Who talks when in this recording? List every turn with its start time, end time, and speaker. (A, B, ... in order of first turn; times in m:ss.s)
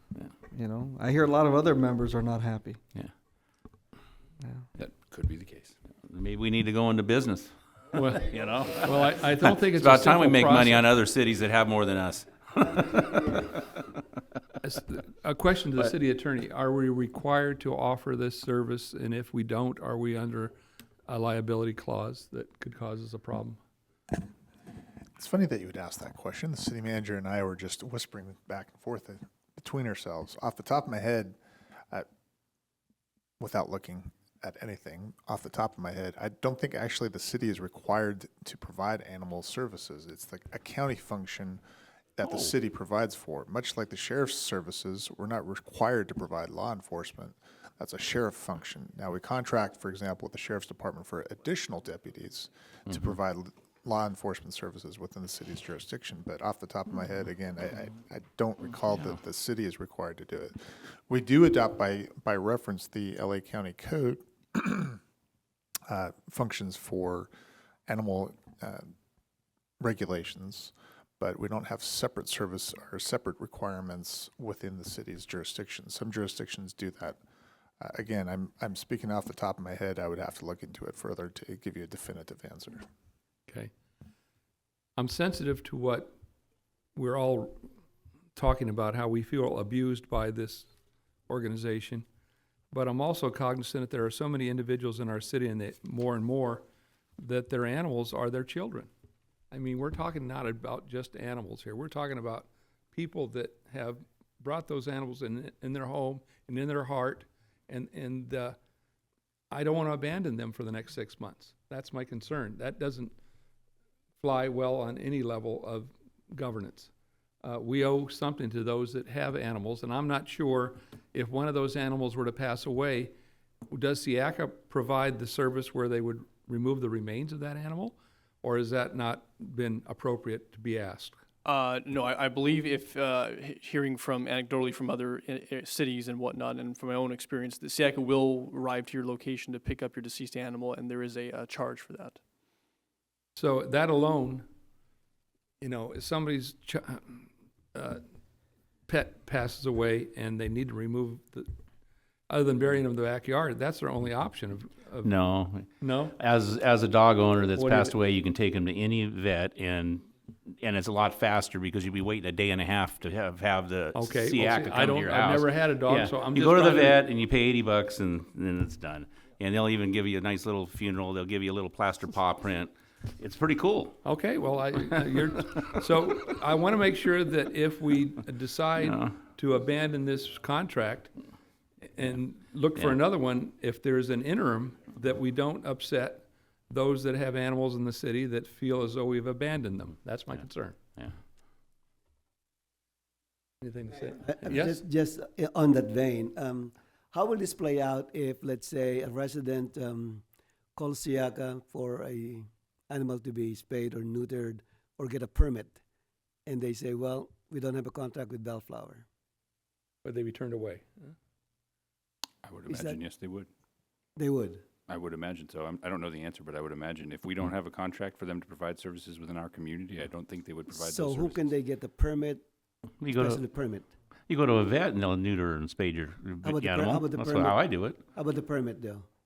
0:00.5-0:02.8 A
0:04.8-0:05.8 B
0:06.1-0:07.5 C
0:07.9-0:08.2 D
0:08.1-0:13.8 C
0:08.8-0:10.9 D
0:14.6-0:20.6 D
0:21.1-0:23.6 D
0:25.2-0:31.4 E
0:33.4-0:41.6 E
0:42.2-1:05.0 E
0:42.2-0:42.5 C
0:52.9-0:53.2 C
0:58.9-0:59.2 C
1:05.9-1:07.3 E
1:07.9-1:08.9 E
1:09.8-1:17.2 E
1:17.8-1:22.9 E
1:25.0-1:26.1 D
1:27.0-1:27.6 D
1:28.4-1:30.7 D
1:31.3-1:32.1 D
1:32.7-1:36.6 D
1:37.2-1:38.9 D
1:39.5-1:48.6 D
1:49.5-1:53.2 D
1:54.2-1:56.9 D
1:57.4-2:03.1 D
2:03.7-2:11.2 D
2:11.4-2:22.2 F
2:23.4-2:24.5 D
2:25.6-2:28.0 D
2:28.9-2:31.5 D
2:32.3-2:35.1 D
2:35.0-2:54.0 C
2:35.8-2:36.2 D
2:37.6-2:37.9 D
2:44.0-2:47.0 D
2:54.0-3:01.1 D
2:58.8-2:59.2 C
3:01.9-3:10.8 D
3:13.6-3:14.8 D
3:14.2-3:20.2 G
3:20.8-3:25.8 G
3:26.5-3:29.0 G
3:30.0-3:31.1 D
3:32.4-3:33.5 B
3:32.7-3:33.0 G
3:34.2-3:34.6 G
3:34.9-3:41.6 B
3:40.7-3:42.4 G
3:43.0-3:43.4 C
3:43.2-3:43.9 G
3:44.3-3:48.0 C
3:46.4-3:49.1 G